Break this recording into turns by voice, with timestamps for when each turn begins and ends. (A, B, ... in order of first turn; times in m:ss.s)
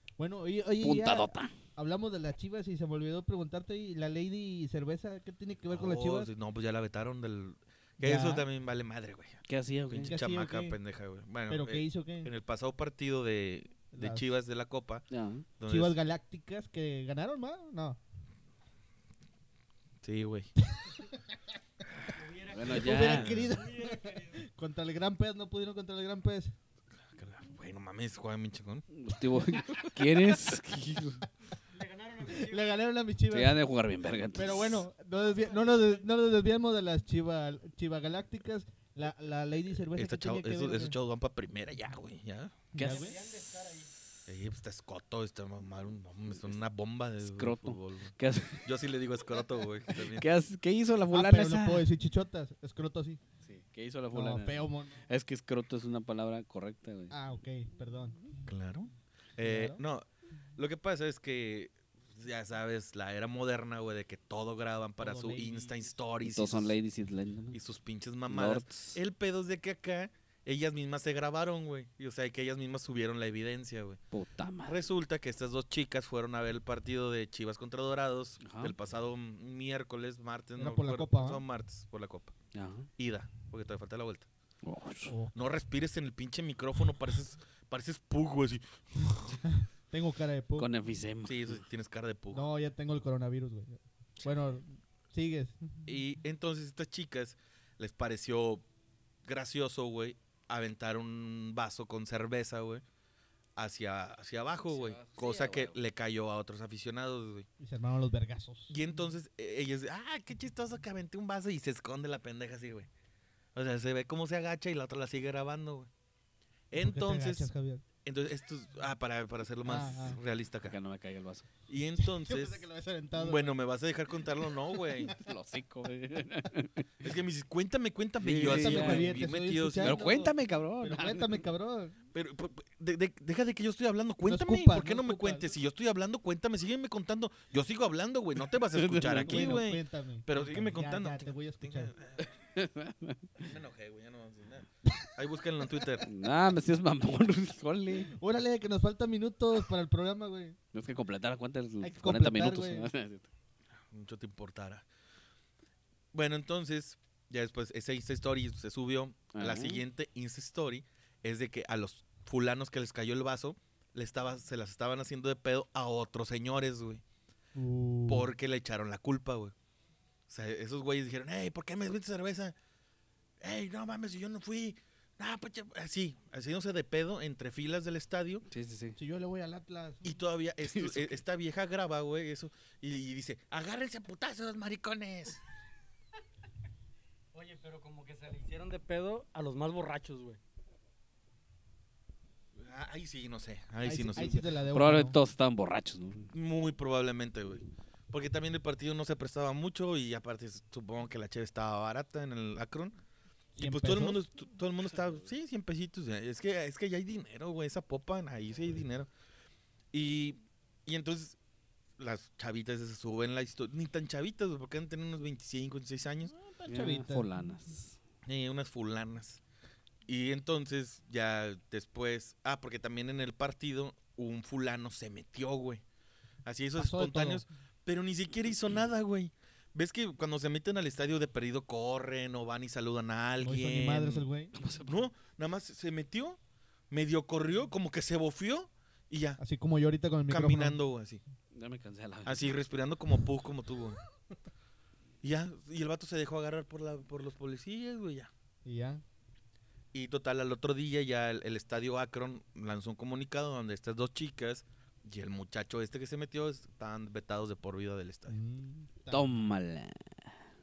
0:00.2-0:06.3 A
0:00.8-0:01.5 B
0:05.7-0:15.0 C
0:08.0-0:08.4 A
0:09.5-0:10.2 B
0:10.0-0:10.8 A
0:11.5-0:12.3 A
0:13.9-0:14.3 A
0:15.1-0:15.4 B
0:15.6-0:16.0 C
0:15.6-0:18.0 A
0:20.0-0:20.5 C
0:20.8-0:21.2 A
0:22.1-0:24.4 D
0:22.4-0:23.5 B
0:22.6-0:26.5 A
0:23.0-0:23.5 C
0:27.1-0:28.8 C
0:28.9-0:31.2 B
0:31.7-0:32.7 D
0:32.2-0:33.6 A
0:33.3-0:34.8 B
0:34.3-0:40.9 A
0:39.9-0:42.7 C
0:42.7-0:43.3 B
0:42.7-0:43.2 A
0:42.8-0:43.9 D
0:44.3-0:50.3 C
0:47.2-0:48.7 B
0:49.9-0:51.9 B
0:51.1-0:53.2 A
0:53.4-0:57.1 B
0:54.1-0:55.0 A
0:57.1-0:58.5 A
0:58.4-1:00.0 C
0:59.4-0:59.8 A
1:00.6-1:06.7 C
1:05.0-1:05.8 A
1:06.2-1:07.6 B
1:07.5-1:14.0 C
1:08.3-1:09.0 B
1:14.1-1:14.8 B
1:14.6-1:22.3 C
1:18.4-1:18.8 B
1:20.6-1:21.4 A
1:22.5-1:22.9 B
1:23.0-1:24.3 C
1:24.6-1:25.1 B
1:25.1-1:25.3 A
1:25.3-1:29.4 C
1:29.4-1:30.7 A
1:30.6-1:31.6 B
1:31.2-1:32.4 C
1:32.3-1:35.9 A
1:35.8-1:38.6 C
1:39.2-1:42.8 C
1:43.6-1:47.5 C
1:44.7-1:45.8 B
1:47.6-1:48.7 A
1:48.7-1:52.9 C
1:53.5-1:55.9 C
1:56.7-1:57.5 C
1:56.7-1:57.8 A
1:58.0-2:00.8 C
1:59.6-2:00.2 A
2:00.6-2:01.5 B
2:01.7-2:05.2 C
2:02.0-2:03.6 A
2:04.7-2:05.2 A
2:05.1-2:06.9 B
2:07.0-2:10.1 C
2:08.2-2:09.2 B
2:08.3-2:12.0 A
2:09.8-2:11.4 B
2:12.1-2:22.2 C
2:14.2-2:15.4 A
2:18.7-2:19.6 B
2:19.1-2:21.9 A
2:22.2-2:23.5 B
2:23.4-2:26.0 C
2:26.0-2:28.1 B
2:28.1-2:30.6 A
2:30.7-2:33.3 B
2:31.8-2:32.9 A
2:33.9-2:34.8 C
2:36.1-2:47.0 C
2:39.3-2:39.8 B
2:47.5-2:48.3 A
2:48.1-2:49.5 C
2:50.3-2:52.5 C
2:53.4-2:58.4 C
2:58.5-2:59.0 B
2:59.0-3:00.2 A
3:00.0-3:05.4 C
3:00.6-3:01.2 B
3:07.3-3:10.4 D
3:12.6-3:14.4 C
3:13.8-3:15.2 A
3:14.7-3:16.3 B
3:16.3-3:23.0 C
3:23.5-3:24.2 A
3:23.6-3:29.1 C
3:29.9-3:31.4 C
3:32.0-3:36.3 C
3:36.4-3:37.3 A
3:36.6-3:38.0 B
3:38.2-3:39.4 C
3:40.1-3:45.8 C
3:46.4-3:54.3 C
3:46.8-3:47.4 A
3:53.4-3:54.5 A
3:54.5-3:55.1 B
3:54.8-3:56.4 C
3:56.9-3:59.4 C
3:59.4-4:00.8 A
4:00.3-4:01.2 C
4:01.5-4:02.5 B
4:02.2-4:04.0 C
4:05.2-4:08.3 C
4:08.6-4:09.0 A
4:09.9-4:18.4 C
4:18.3-4:19.4 A
4:19.1-4:20.4 B